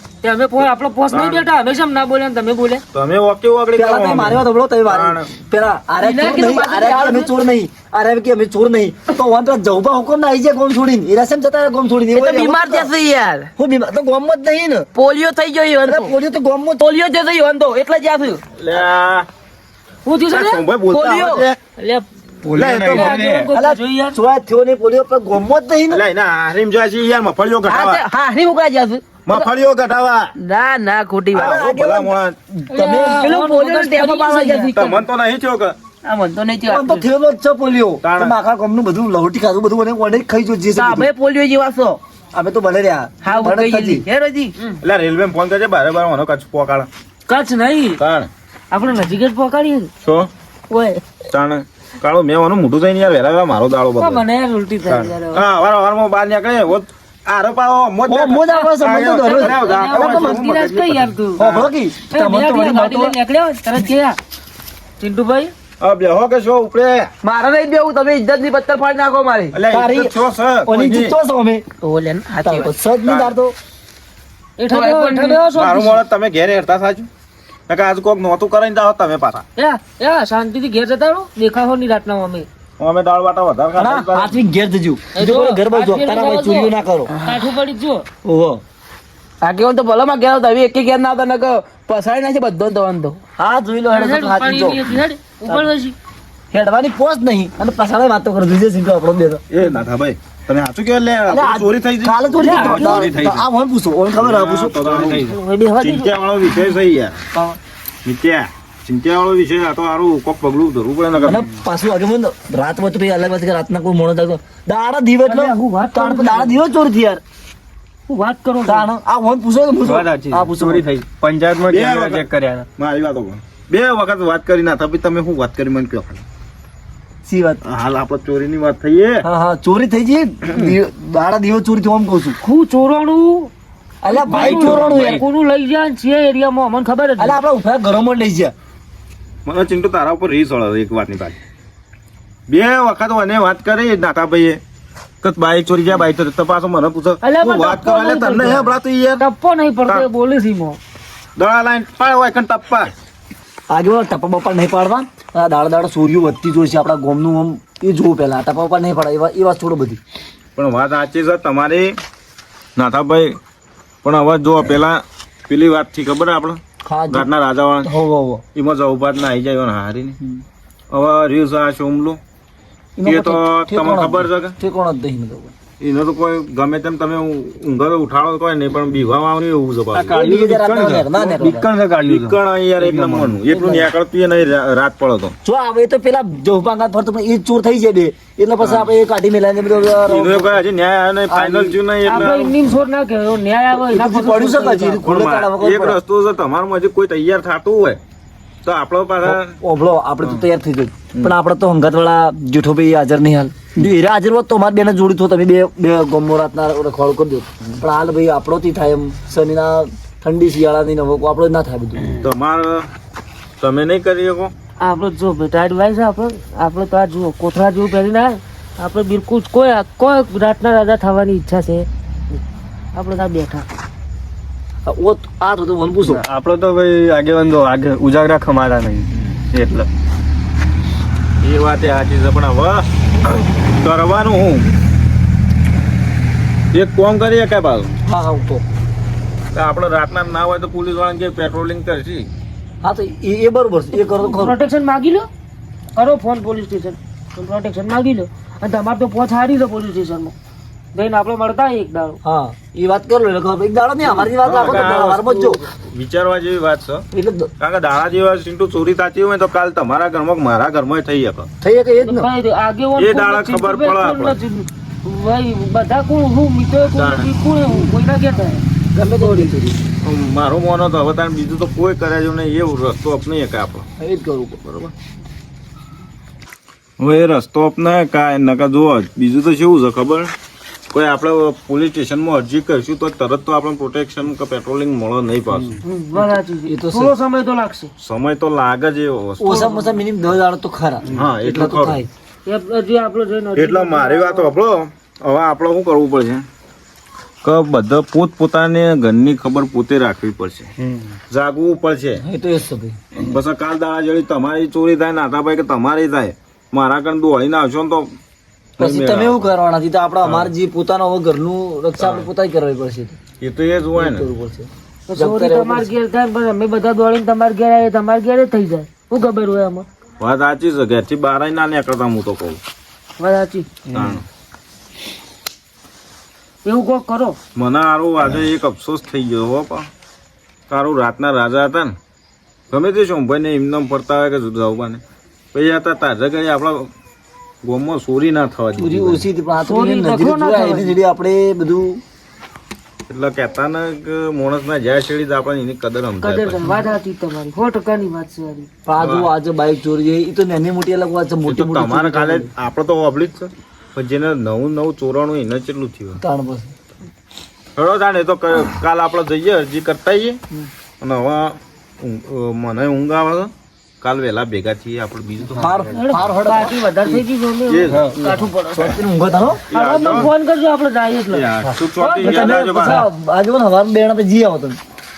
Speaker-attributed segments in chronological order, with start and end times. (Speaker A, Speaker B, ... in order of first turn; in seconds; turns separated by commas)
Speaker A: 0.2-2.8, Speaker B: 1.1-1.5, Speaker B: 2.9-5.3, Speaker C: 3.8-12.9, Speaker D: 6.0-7.3, Speaker D: 12.1-13.5, Speaker C: 13.6-14.9, Speaker D: 14.9-16.1, Speaker C: 15.8-16.8, Speaker D: 16.8-18.4, Speaker B: 18.6-19.3, Speaker A: 20.1-20.6, Speaker B: 20.3-21.6, Speaker D: 20.9-21.4, Speaker A: 21.8-22.1, Speaker E: 22.4-23.5, Speaker B: 22.5-23.5, Speaker A: 22.8-24.2, Speaker C: 23.5-26.0, Speaker B: 25.9-28.0, Speaker D: 27.7-29.5, Speaker B: 29.2-30.3, Speaker D: 30.3-31.6, Speaker B: 31.3-32.4, Speaker C: 31.3-33.3, Speaker A: 32.7-34.8, Speaker D: 32.9-35.0, Speaker B: 34.7-35.8, Speaker D: 36.0-37.0, Speaker C: 36.7-41.1, Speaker B: 38.0-38.3, Speaker D: 40.7-42.0, Speaker C: 42.3-44.0, Speaker D: 43.2-44.7, Speaker B: 44.8-46.9, Speaker A: 47.3-48.0, Speaker B: 48.0-48.3, Speaker A: 48.7-49.9, Speaker B: 50.0-50.3, Speaker B: 51.3-54.2, Speaker A: 54.0-55.4, Speaker B: 54.9-61.7, Speaker C: 58.1-60.4, Speaker A: 58.5-61.5, Speaker C: 61.4-63.1, Speaker A: 62.1-64.2, Speaker A: 65.0-65.5, Speaker B: 65.8-67.1, Speaker D: 67.2-69.6, Speaker B: 69.5-71.1, Speaker C: 69.7-70.1, Speaker C: 70.7-71.7, Speaker D: 71.8-72.7, Speaker C: 72.4-73.5, Speaker B: 73.0-73.3, Speaker A: 74.6-76.0, Speaker D: 74.7-75.4, Speaker B: 75.5-77.1, Speaker B: 77.7-79.4, Speaker A: 79.6-82.5, Speaker B: 82.8-84.4, Speaker C: 83.8-87.1, Speaker A: 85.2-86.7, Speaker A: 87.2-88.0, Speaker C: 88.2-88.6, Speaker D: 89.4-93.2, Speaker C: 93.4-95.0, Speaker A: 93.9-96.0, Speaker C: 96.5-99.4, Speaker B: 99.5-103.3, Speaker C: 101.3-105.2, Speaker A: 102.4-103.0, Speaker E: 102.8-103.4, Speaker B: 104.2-107.2, Speaker E: 104.8-105.3, Speaker A: 105.0-106.1, Speaker B: 108.0-111.5, Speaker C: 111.2-117.2, Speaker A: 115.2-116.6, Speaker A: 118.1-118.9, Speaker C: 118.6-120.9, Speaker E: 119.8-122.7, Speaker B: 121.7-126.2, Speaker C: 127.2-127.6, Speaker B: 127.6-129.2, Speaker C: 129.2-132.4, Speaker A: 132.4-133.5, Speaker C: 134.0-135.2, Speaker A: 134.1-137.4, Speaker B: 134.3-135.2, Speaker C: 137.2-138.5, Speaker B: 139.4-141.4, Speaker B: 142.5-144.6, Speaker B: 145.2-149.2, Speaker A: 147.2-150.8, Speaker B: 151.4-152.9, Speaker C: 153.7-160.0, Speaker B: 160.6-161.9, Speaker B: 162.8-163.4, Speaker B: 164.0-167.9, Speaker C: 166.8-167.3, Speaker C: 167.8-168.4, Speaker B: 168.5-170.2, Speaker B: 170.9-172.2, Speaker C: 173.0-175.5, Speaker B: 173.0-174.6, Speaker B: 175.8-180.2, Speaker E: 179.9-183.4, Speaker C: 180.1-181.7, Speaker B: 182.0-185.3, Speaker C: 183.5-183.9, Speaker C: 185.4-190.6, Speaker B: 188.6-188.9, Speaker B: 190.1-192.5, Speaker C: 191.3-192.3, Speaker A: 192.0-195.0, Speaker C: 193.7-196.0, Speaker B: 195.0-198.0, Speaker B: 198.6-199.6, Speaker C: 199.2-212.2, Speaker B: 212.1-212.9, Speaker B: 213.6-214.5, Speaker A: 214.8-221.9, Speaker A: 222.9-223.7, Speaker C: 224.8-226.2, Speaker E: 226.1-229.9, Speaker B: 231.4-234.7, Speaker B: 236.7-237.9, Speaker C: 238.0-238.6, Speaker B: 239.5-242.3, Speaker C: 242.8-244.6, Speaker A: 243.9-245.3, Speaker A: 245.9-250.3, Speaker A: 250.9-252.2, Speaker C: 252.2-255.6, Speaker B: 254.2-257.0, Speaker C: 257.1-257.5, Speaker B: 257.6-261.5, Speaker C: 261.6-262.3, Speaker A: 262.0-268.6, Speaker B: 263.0-264.4, Speaker B: 266.9-267.3, Speaker C: 268.9-269.8, Speaker A: 269.2-269.5, Speaker B: 270.0-273.9, Speaker C: 274.0-274.9, Speaker B: 277.0-280.3, Speaker B: 280.9-285.8, Speaker A: 285.8-287.9, Speaker C: 286.7-287.1, Speaker B: 288.0-289.8, Speaker C: 289.4-292.1, Speaker A: 289.5-289.8, Speaker B: 291.1-292.0, Speaker A: 292.4-294.5, Speaker B: 293.6-296.4, Speaker B: 297.4-300.7, Speaker B: 301.3-302.2, Speaker C: 302.2-303.0, Speaker B: 303.1-308.1, Speaker B: 308.8-309.5, Speaker C: 308.8-313.2, Speaker B: 310.2-310.5, Speaker B: 312.0-312.3, Speaker B: 313.4-314.2, Speaker C: 313.9-315.9, Speaker A: 315.1-319.9, Speaker B: 320.2-322.6, Speaker A: 323.2-323.7, Speaker B: 323.9-324.2, Speaker A: 326.6-327.4, Speaker B: 327.6-329.9, Speaker B: 330.7-331.9, Speaker B: 332.7-335.0, Speaker B: 335.5-336.9, Speaker B: 337.6-339.2, Speaker C: 338.8-342.0, Speaker A: 339.6-340.9, Speaker B: 343.1-346.6, Speaker A: 346.2-348.7, Speaker C: 348.9-352.5, Speaker B: 349.0-349.3, Speaker B: 351.4-356.2, Speaker C: 356.2-356.7, Speaker B: 357.8-360.4, Speaker B: 361.0-365.9, Speaker C: 365.5-367.2, Speaker A: 365.9-369.0, Speaker B: 367.7-368.4, Speaker E: 367.9-368.2, Speaker C: 368.7-369.6, Speaker B: 369.7-370.3, Speaker A: 369.7-373.1, Speaker B: 371.3-373.0, Speaker C: 372.2-374.8